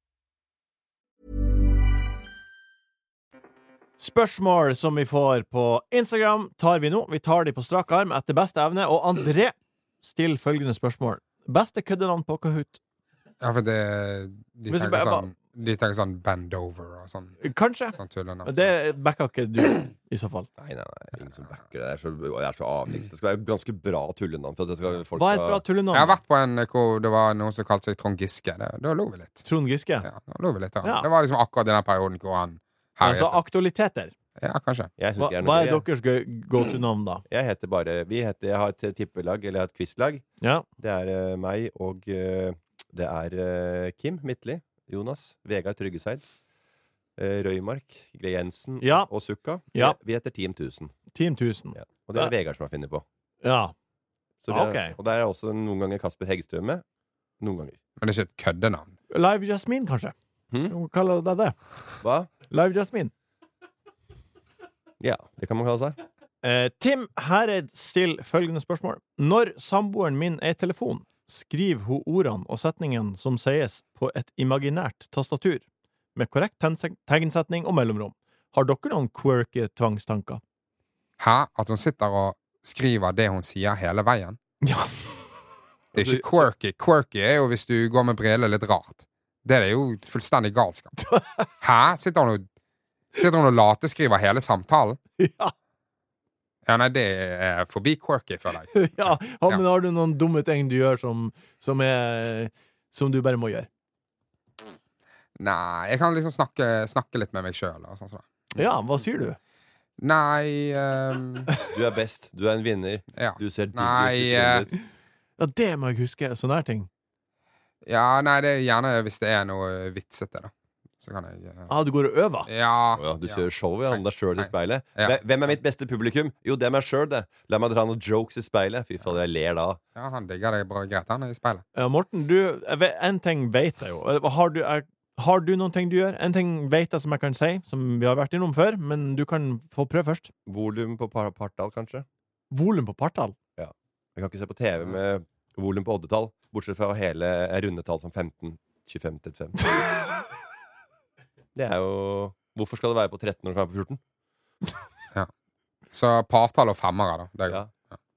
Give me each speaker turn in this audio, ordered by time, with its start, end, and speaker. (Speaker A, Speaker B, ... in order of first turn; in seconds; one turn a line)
Speaker A: 4.0-12.8
Speaker B: 13.4-17.4
Speaker A: 14.7-15.3
Speaker A: 17.4-20.5
Speaker B: 17.9-18.7
Speaker C: 20.6-25.6
Speaker A: 25.1-26.2
Speaker B: 25.9-29.4
Speaker A: 29.4-30.1
Speaker B: 30.0-33.4
Speaker A: 30.8-31.1
Speaker A: 33.0-34.1
Speaker B: 34.4-34.9
Speaker C: 35.0-35.8
Speaker A: 35.2-37.2
Speaker C: 37.3-40.2
Speaker C: 40.8-46.2
Speaker C: 47.2-50.9
Speaker A: 48.8-49.1
Speaker A: 51.1-52.3
Speaker C: 51.8-53.0
Speaker A: 53.4-53.7
Speaker C: 54.4-56.8
Speaker A: 54.5-54.9
Speaker C: 57.4-57.8
Speaker B: 58.0-58.9
Speaker A: 59.1-60.1
Speaker A: 60.7-61.5
Speaker C: 62.0-62.3
Speaker A: 62.5-63.1
Speaker C: 65.0-66.0
Speaker A: 66.4-75.6
Speaker A: 76.2-80.4
Speaker B: 81.2-84.4
Speaker A: 84.6-85.0
Speaker B: 85.9-90.9
Speaker C: 85.9-86.5
Speaker A: 91.0-91.5
Speaker B: 91.6-92.5
Speaker B: 93.1-95.0
Speaker A: 95.2-95.5
Speaker B: 96.6-99.6
Speaker A: 98.7-103.7
Speaker B: 105.4-108.6
Speaker A: 108.5-109.4
Speaker B: 110.0-111.5
Speaker C: 111.7-114.7
Speaker B: 113.1-114.7
Speaker A: 115.4-116.9
Speaker B: 117.8-121.7
Speaker A: 121.7-122.5
Speaker B: 122.5-125.6
Speaker C: 123.0-129.8
Speaker B: 129.9-131.6
Speaker A: 131.8-140.3
Speaker C: 140.5-142.0
Speaker A: 142.5-143.3
Speaker C: 143.6-149.7
Speaker C: 151.5-154.0
Speaker B: 155.9-157.6